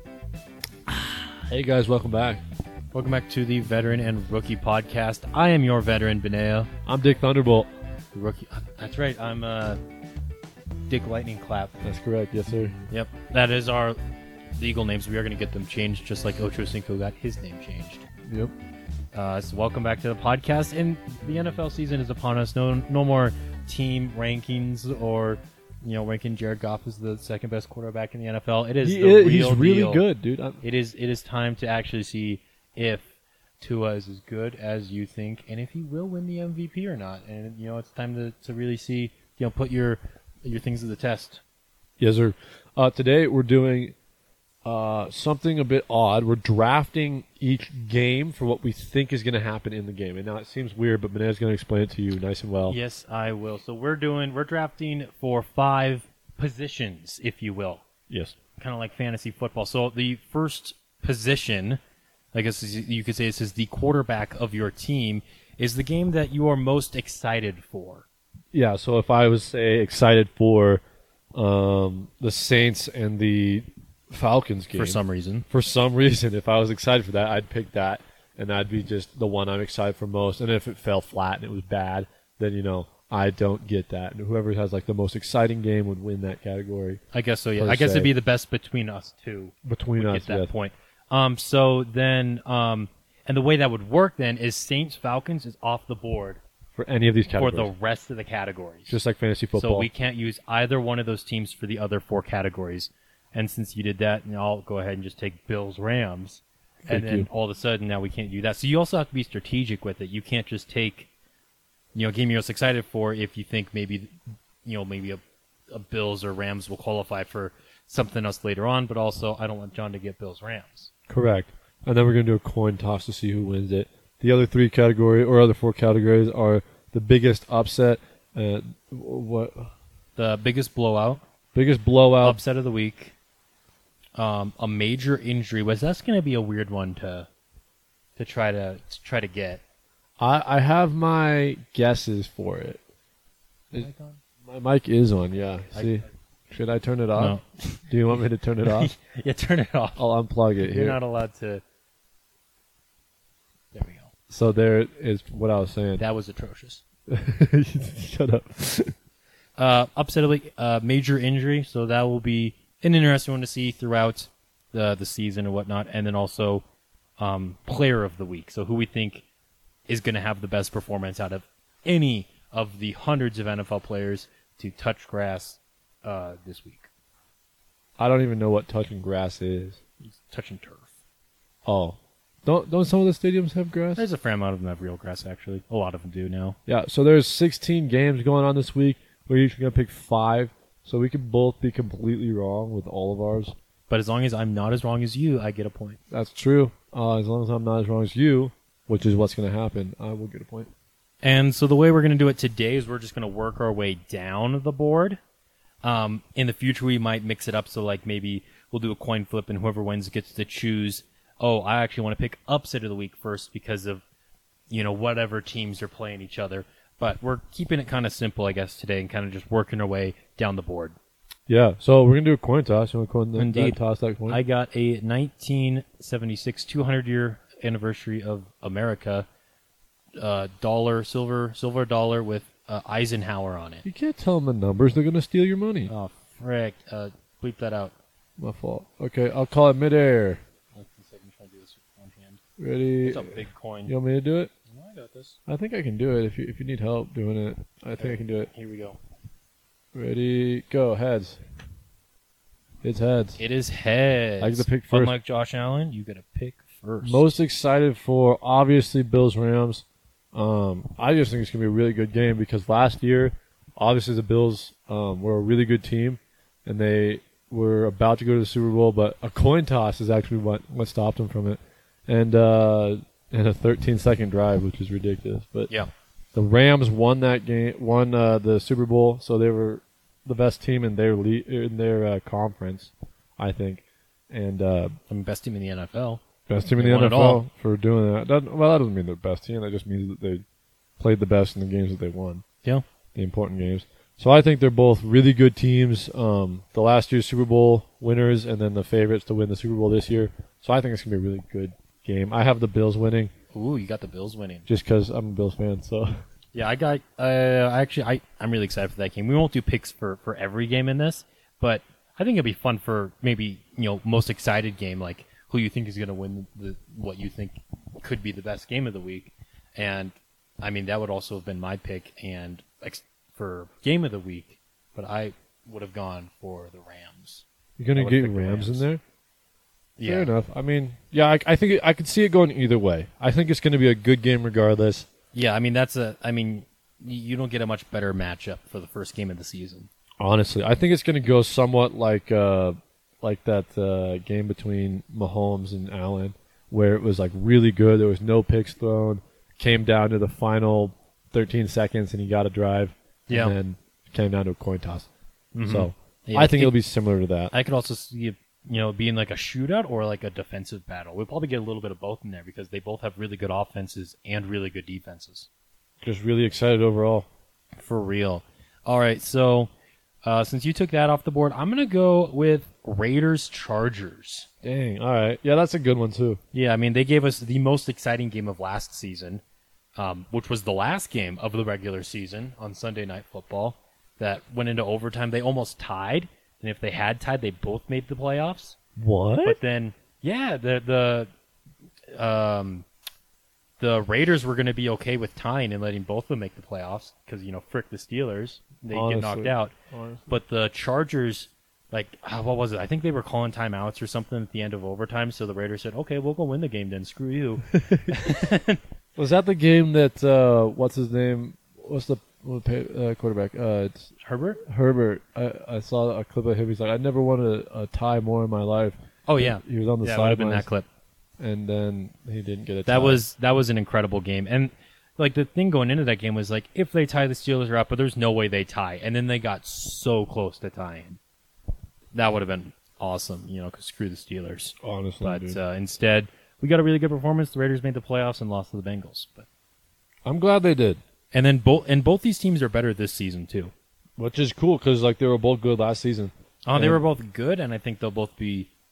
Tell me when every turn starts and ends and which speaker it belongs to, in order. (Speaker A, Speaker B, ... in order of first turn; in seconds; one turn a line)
Speaker A: 1.1-2.4
Speaker B: 2.9-6.7
Speaker A: 6.9-7.7
Speaker B: 8.1-9.8
Speaker B: 10.9-11.8
Speaker A: 11.8-12.8
Speaker B: 12.9-14.0
Speaker B: 14.6-18.1
Speaker A: 18.3-18.5
Speaker B: 19.1-30.0
Speaker A: 28.8-30.6
Speaker B: 30.6-33.0
Speaker B: 33.6-41.4
Speaker A: 42.0-43.9
Speaker A: 44.6-52.8
Speaker B: 52.7-57.9
Speaker A: 58.1-58.4
Speaker B: 58.6-61.8
Speaker B: 62.3-68.1
Speaker A: 68.5-70.8
Speaker A: 71.3-75.0
Speaker B: 74.8-75.5
Speaker A: 75.5-87.0
Speaker B: 87.1-96.4
Speaker A: 87.6-88.1
Speaker A: 89.7-90.5
Speaker A: 96.8-97.7
Speaker B: 97.3-99.0
Speaker A: 98.9-99.9
Speaker B: 99.5-111.1
Speaker A: 106.9-107.3
Speaker B: 112.0-120.9
Speaker A: 121.1-129.7
Speaker B: 130.2-131.2
Speaker A: 131.6-132.4
Speaker B: 132.2-133.1
Speaker B: 134.2-137.3
Speaker B: 138.2-139.6
Speaker A: 140.2-142.8
Speaker B: 143.7-144.2
Speaker A: 144.4-148.9
Speaker B: 147.2-150.0
Speaker A: 150.0-151.0
Speaker B: 150.6-151.6
Speaker B: 153.7-154.1
Speaker A: 154.3-156.0
Speaker B: 156.0-156.8
Speaker A: 157.1-158.9
Speaker B: 159.6-166.6
Speaker B: 167.2-169.2
Speaker B: 169.9-176.9
Speaker A: 178.0-179.8
Speaker B: 180.0-180.9
Speaker A: 181.7-184.0
Speaker B: 184.0-186.6
Speaker A: 186.7-193.6
Speaker B: 193.9-196.0
Speaker A: 196.1-200.7
Speaker B: 201.2-205.2
Speaker B: 205.8-214.0
Speaker B: 214.7-221.0
Speaker A: 221.5-224.4
Speaker B: 223.4-223.8
Speaker B: 224.3-229.3
Speaker B: 230.2-233.8
Speaker A: 233.8-235.9
Speaker B: 235.9-237.9
Speaker A: 238.4-240.4
Speaker B: 240.8-242.4
Speaker A: 242.6-244.5
Speaker B: 243.0-243.9
Speaker B: 244.7-245.4
Speaker A: 245.5-248.5
Speaker B: 248.0-249.0
Speaker A: 249.9-251.4
Speaker A: 252.8-253.4
Speaker B: 253.4-257.2
Speaker A: 254.4-255.2
Speaker A: 257.0-275.7
Speaker A: 276.4-285.0
Speaker B: 285.1-286.2
Speaker A: 286.5-290.4
Speaker B: 286.8-287.4
Speaker A: 291.0-292.4
Speaker A: 293.1-303.3
Speaker B: 303.5-304.7
Speaker A: 304.7-306.1
Speaker B: 306.5-327.4
Speaker A: 327.8-329.0
Speaker B: 327.9-328.9
Speaker B: 330.0-330.3
Speaker A: 330.0-335.1
Speaker B: 335.3-339.9
Speaker A: 340.2-355.1
Speaker B: 353.3-353.6
Speaker B: 355.6-356.7
Speaker A: 355.7-357.5
Speaker B: 357.5-365.5
Speaker A: 366.0-367.3
Speaker B: 367.8-369.7
Speaker B: 370.2-374.5
Speaker A: 374.6-376.4
Speaker B: 376.5-379.4
Speaker B: 380.0-388.8
Speaker A: 389.0-389.6
Speaker B: 389.4-391.3
Speaker B: 392.1-392.9
Speaker B: 393.8-399.7
Speaker A: 398.9-400.3
Speaker B: 400.3-408.8
Speaker A: 407.7-408.5
Speaker A: 409.2-414.1
Speaker B: 414.2-414.6
Speaker A: 414.6-420.7
Speaker B: 419.3-420.9
Speaker A: 421.4-423.2
Speaker B: 422.9-431.2
Speaker B: 432.1-439.5
Speaker A: 434.8-435.6
Speaker A: 440.2-441.0
Speaker B: 441.3-443.7
Speaker A: 444.2-447.0
Speaker B: 446.6-448.7